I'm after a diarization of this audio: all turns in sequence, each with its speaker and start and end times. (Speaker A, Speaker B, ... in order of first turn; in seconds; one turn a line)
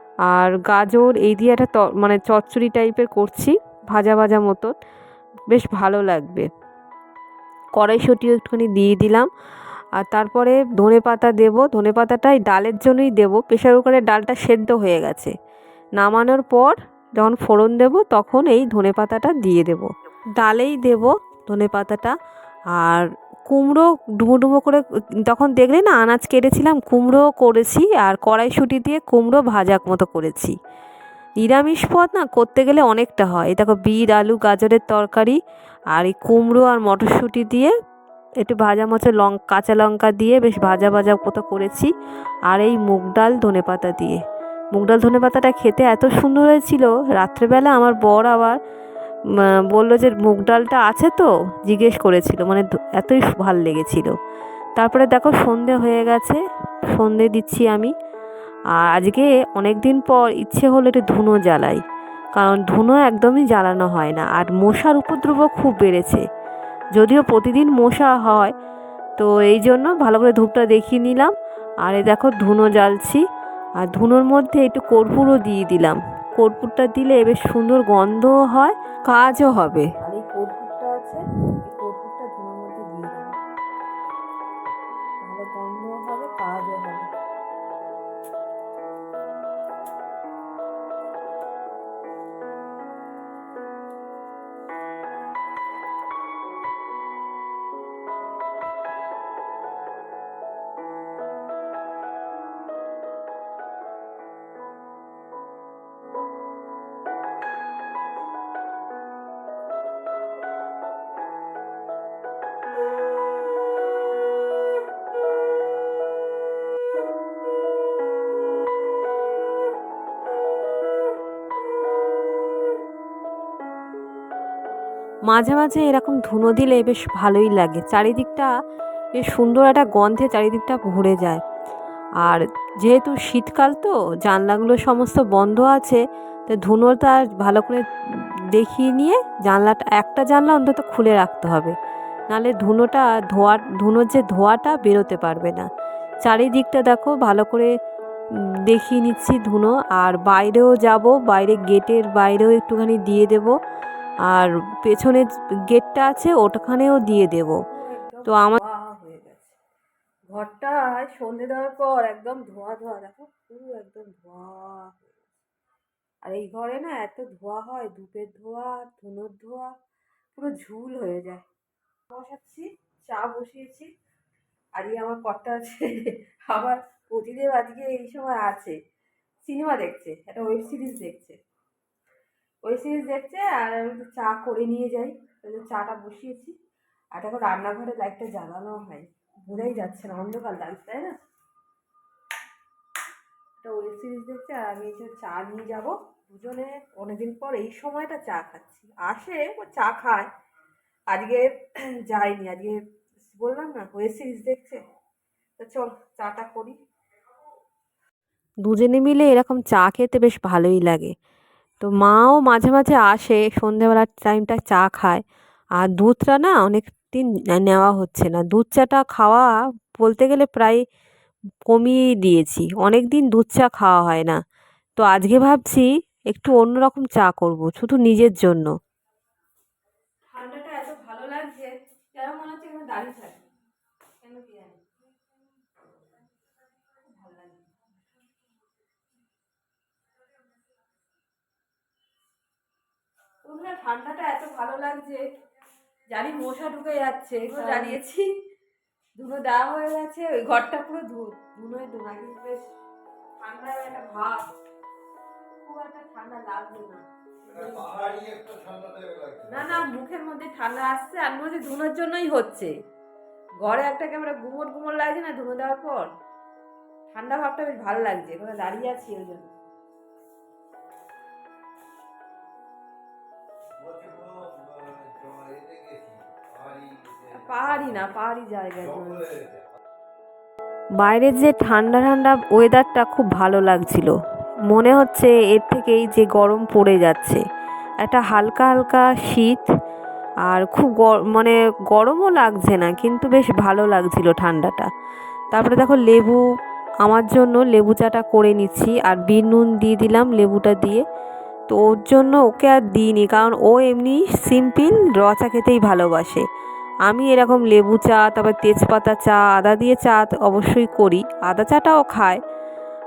Speaker A: 0.3-4.7
Speaker A: 5.5-6.5
Speaker A: 7.8-9.3
Speaker A: 10.0-15.3
Speaker A: 16.0-22.1
Speaker A: 22.7-30.5
Speaker A: 31.4-35.4
Speaker A: 35.9-37.7
Speaker A: 38.4-41.9
Speaker A: 42.5-44.2
Speaker A: 44.7-48.6
Speaker A: 49.7-54.1
Speaker A: 54.8-56.4
Speaker A: 56.9-57.9
Speaker A: 58.7-61.8
Speaker A: 62.3-66.2
Speaker A: 66.9-68.5
Speaker A: 69.2-73.2
Speaker A: 73.8-79.9
Speaker B: 80.0-83.3
Speaker B: 85.2-87.1
Speaker A: 125.3-128.5
Speaker A: 129.1-131.4
Speaker A: 132.2-141.7
Speaker A: 142.3-145.7
Speaker A: 146.2-147.7
Speaker A: 148.7-153.5
Speaker A: 154.3-157.6
Speaker B: 157.7-159.6
Speaker A: 158.3-158.6
Speaker B: 160.3-165.1
Speaker B: 166.2-169.7
Speaker B: 170.3-171.4
Speaker B: 172.1-173.9
Speaker B: 174.8-178.7
Speaker B: 179.4-181.4
Speaker B: 182.6-186.5
Speaker B: 187.1-191.2
Speaker B: 193.6-200.3
Speaker B: 201.1-201.5
Speaker B: 202.1-202.8
Speaker B: 203.3-204.8
Speaker B: 205.6-206.8
Speaker A: 208.6-211.1
Speaker A: 211.8-215.2
Speaker A: 215.8-220.8
Speaker A: 221.7-224.4
Speaker A: 225.0-228.7
Speaker B: 230.3-233.4
Speaker B: 234.2-234.8
Speaker B: 236.9-237.7
Speaker B: 243.4-245.2
Speaker B: 246.1-248.2
Speaker A: 247.6-248.0
Speaker B: 249.2-252.7
Speaker B: 253.4-254.4
Speaker B: 255.6-257.8
Speaker C: 257.5-259.9
Speaker B: 259.5-262.7
Speaker B: 263.6-266.1
Speaker B: 267.1-269.5
Speaker C: 273.8-278.1
Speaker B: 277.3-279.2
Speaker C: 278.8-279.7
Speaker A: 281.0-284.1
Speaker A: 284.7-287.4
Speaker A: 288.0-289.7
Speaker A: 290.5-294.9
Speaker A: 295.5-296.4
Speaker A: 297.0-301.0
Speaker A: 301.7-306.4
Speaker A: 307.1-312.4